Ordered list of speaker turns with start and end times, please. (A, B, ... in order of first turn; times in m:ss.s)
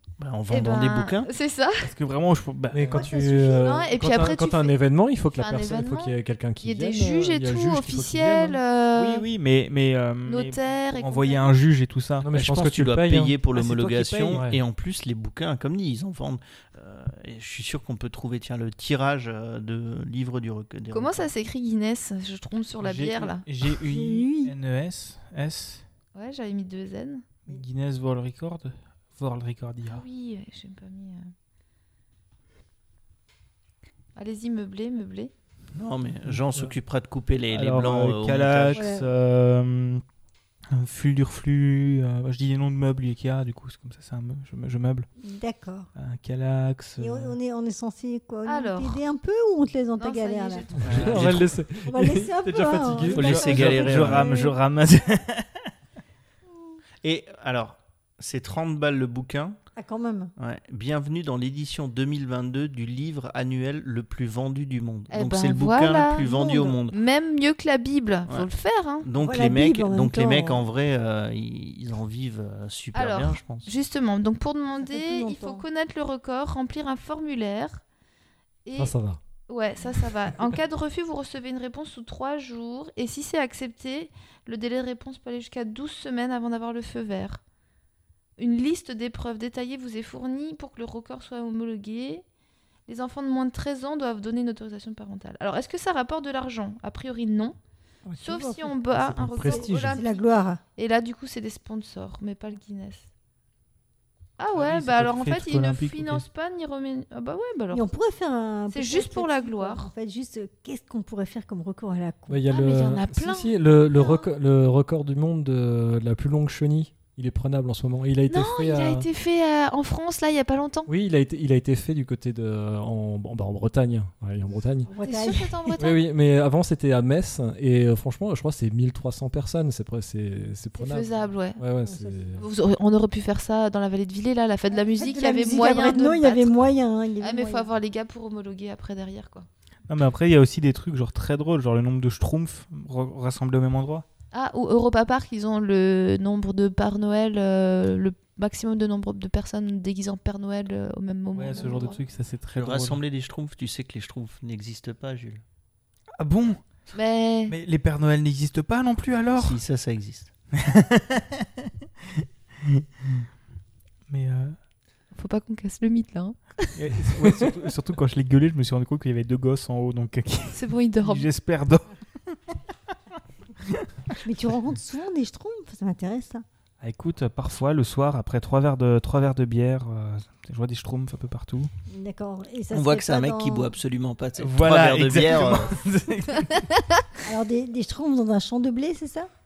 0:00.2-0:01.3 A
0:00.5-0:01.9 B
0:01.8-0:03.1 C
0:02.7-0:08.6 D
0:02.9-0:03.8 E
0:03.4-0:04.8 B
0:05.3-0:09.3 B
0:09.0-0:12.3 C
0:10.3-0:11.6 B
0:12.2-0:13.4 D
0:12.3-0:21.3 A
0:13.5-0:14.5 C
0:14.3-0:14.6 D
0:20.9-0:23.4 B
0:22.8-0:25.8 C
0:23.8-0:24.5 E
0:26.2-0:27.3 B
0:27.5-0:30.0 C
0:29.9-0:31.3 B
0:34.2-0:35.3 B
0:35.8-0:38.9 A
0:37.5-0:40.0 C
0:38.7-0:39.1 E
0:40.7-0:45.1 C
0:45.2-0:45.9 E
0:46.0-0:47.4 C
0:47.0-0:50.7 E
0:48.5-0:49.0 B
0:50.0-0:51.4 B
0:50.8-0:54.0 D
0:50.8-0:51.4 C
0:50.9-0:51.5 A
0:51.8-0:54.6 E
0:53.0-0:54.3 A
0:53.2-0:55.7 C
0:56.5-0:56.8 E
0:57.0-0:59.6 A
0:59.8-1:00.3 E
1:00.4-1:07.0 A
1:05.1-1:09.1 B
1:06.2-1:06.8 E
1:09.0-1:13.7 A
1:09.2-1:10.6 E
1:12.9-1:17.8 B
1:14.8-1:15.6 E
1:18.6-1:18.9 B
1:18.7-1:19.2 D
1:19.5-1:27.4 B
1:28.4-1:32.2 B
1:32.9-1:37.6 B
1:38.1-1:38.8 E
1:38.2-1:40.2 B
1:38.9-1:40.0 D
1:39.4-1:40.6 E
1:40.8-1:43.1 B
1:44.4-1:47.9 B
1:44.5-1:46.2 C
1:47.7-1:52.4 E
1:48.7-1:49.9 B
1:52.3-1:59.1 D
1:52.5-1:53.6 B
1:58.3-2:00.9 B
2:00.9-2:04.9 D
2:04.9-2:05.8 E
2:05.0-2:06.1 B
2:05.8-2:12.5 D
2:10.8-2:11.6 B
2:11.8-2:12.3 E
2:12.4-2:16.6 B
2:14.7-2:17.7 E
2:17.2-2:19.5 B
2:19.9-2:24.0 C
2:24.3-2:32.0 B
2:31.3-2:33.0 C
2:32.5-2:35.4 A
2:36.2-2:36.6 C
2:36.9-2:37.6 B
2:37.5-2:39.6 C
2:39.4-2:40.3 A
2:40.6-2:41.3 C
2:42.6-2:43.3 C
2:44.1-2:44.6 C
2:45.1-2:46.8 B
2:46.8-2:52.0 C
2:50.5-2:51.3 B
2:53.7-2:54.2 C
2:54.2-2:56.4 E
2:56.8-3:01.7 C
3:01.9-3:03.7 E
3:02.7-3:05.8 A
3:04.4-3:06.7 C
3:06.5-3:07.0 B
3:07.2-3:09.3 E